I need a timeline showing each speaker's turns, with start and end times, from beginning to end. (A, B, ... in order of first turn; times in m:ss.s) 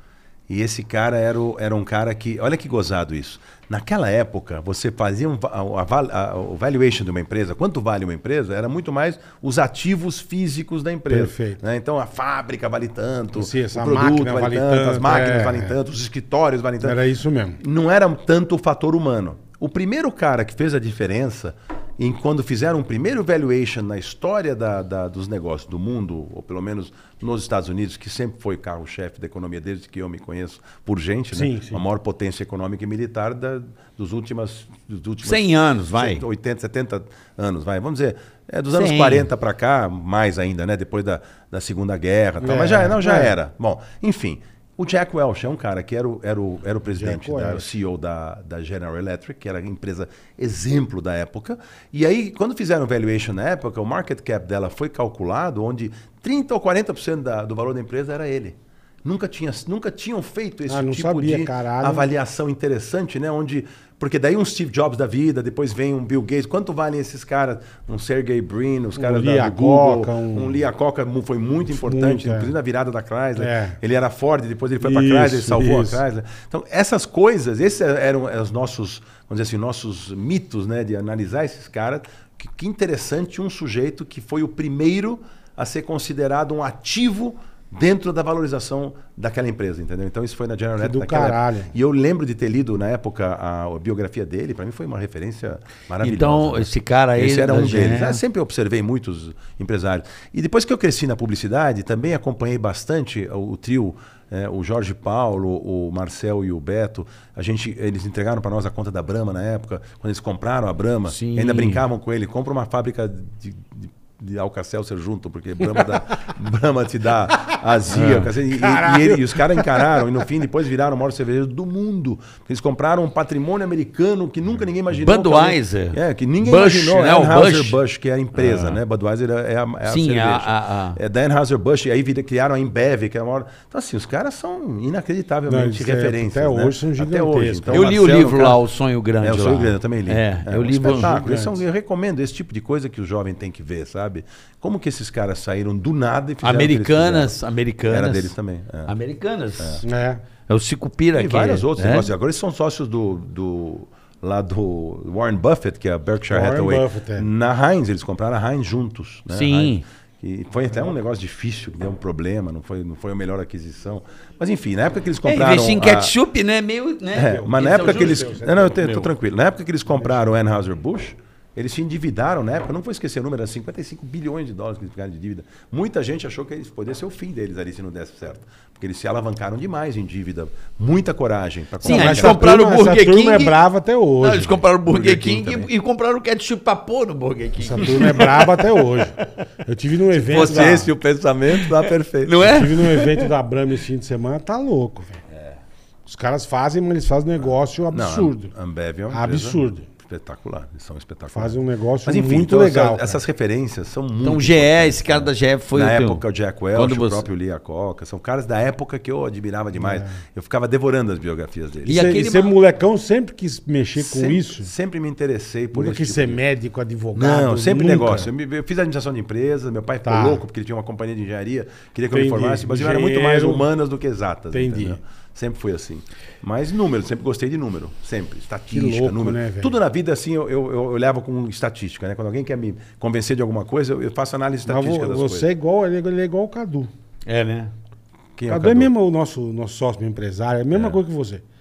0:00.5-0:17.0 A
0:11.1-0:11.6 B
0:13.3-0:15.7 B
0:16.8-0:17.6 B
0:17.6-2:18.6 A
0:31.3-0:31.8 B
0:35.2-0:36.2 C
0:38.7-0:39.3 C
0:42.4-0:43.3 B
0:46.9-0:47.7 B
1:00.7-1:02.1 B
1:09.0-1:10.6 B
1:11.7-1:12.5 B
1:13.4-1:13.8 B
1:14.8-1:16.0 B
1:30.8-1:31.7 B
1:36.0-1:38.2 C
1:51.1-1:51.8 C
1:57.9-1:58.3 C
1:58.5-2:00.1 B
2:05.0-2:07.8 C
2:08.4-2:08.8 C
2:09.9-2:11.0 C
2:15.5-2:18.0 B
2:17.7-2:21.2 C
2:19.2-2:27.3 A
2:21.0-2:21.6 B
2:26.4-2:28.3 C
2:27.9-2:28.9 A
2:28.9-2:29.8 C
2:29.6-2:29.8 A
2:29.8-2:30.2 B
2:30.5-2:32.1 C
2:31.2-2:46.1 A
2:36.3-2:37.3 B
2:39.3-2:39.8 C
2:45.2-2:49.1 C
2:47.1-3:02.4 A
2:47.2-2:49.0 B
2:49.9-2:50.2 B
3:01.8-3:03.6 C
3:01.8-3:04.6 B
3:04.2-3:08.5 C
3:04.9-3:05.7 A
3:07.6-3:10.9 B
3:07.9-3:08.3 A
3:10.2-3:12.5 A
3:11.5-3:13.3 C
3:12.4-3:15.2 B
3:16.0-3:18.5 B
3:17.9-3:32.1 A
3:19.1-3:19.9 B
3:21.3-3:23.2 B
3:24.2-3:26.2 C
3:26.7-3:27.3 C
3:29.8-3:30.1 B
3:31.9-3:32.5 C
3:31.9-3:34.7 B
3:34.0-3:36.4 A
3:35.7-3:38.3 B
3:37.1-3:55.5 A
3:40.0-3:40.4 B
3:42.1-3:43.6 B
3:44.5-3:45.0 B
3:48.7-3:49.7 B
3:54.6-3:56.9 B
3:57.3-3:57.7 C
3:58.4-3:58.9 A
3:58.5-4:01.4 B